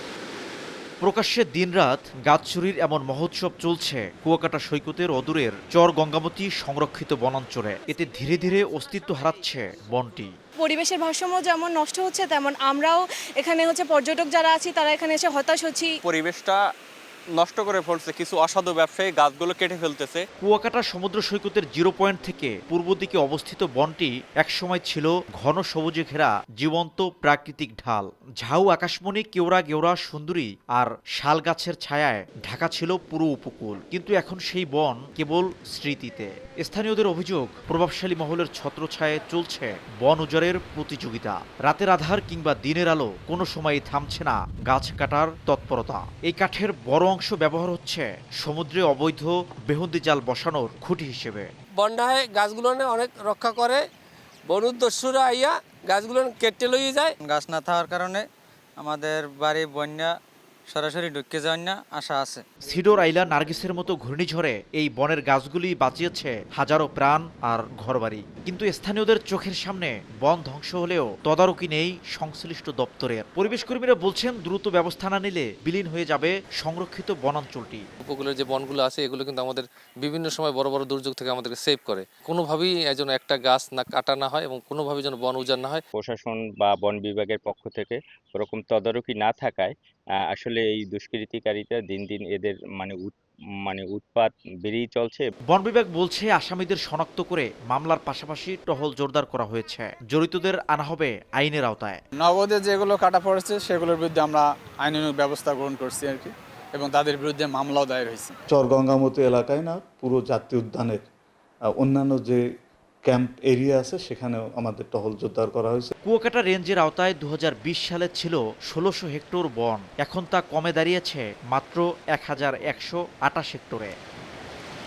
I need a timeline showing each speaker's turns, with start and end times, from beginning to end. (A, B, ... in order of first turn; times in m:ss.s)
0:01.0-0:10.3 A
0:10.6-0:15.9 B
0:16.2-0:16.5 C
0:17.4-0:20.1 C
0:20.4-0:51.5 A
0:51.8-0:53.8 D
0:54.5-0:57.1 D
0:57.3-0:58.2 E
0:58.8-1:00.1 E
1:00.7-1:02.4 E
1:02.6-1:17.8 A
1:18.0-1:25.8 F
1:26.0-1:29.7 G
1:30.4-1:33.1 G
1:33.7-1:35.2 G
1:35.5-1:42.0 A
1:42.3-1:48.3 H
1:48.5-1:51.0 I
1:51.7-1:52.4 I
1:53.0-1:55.9 I
1:56.0-2:03.9 A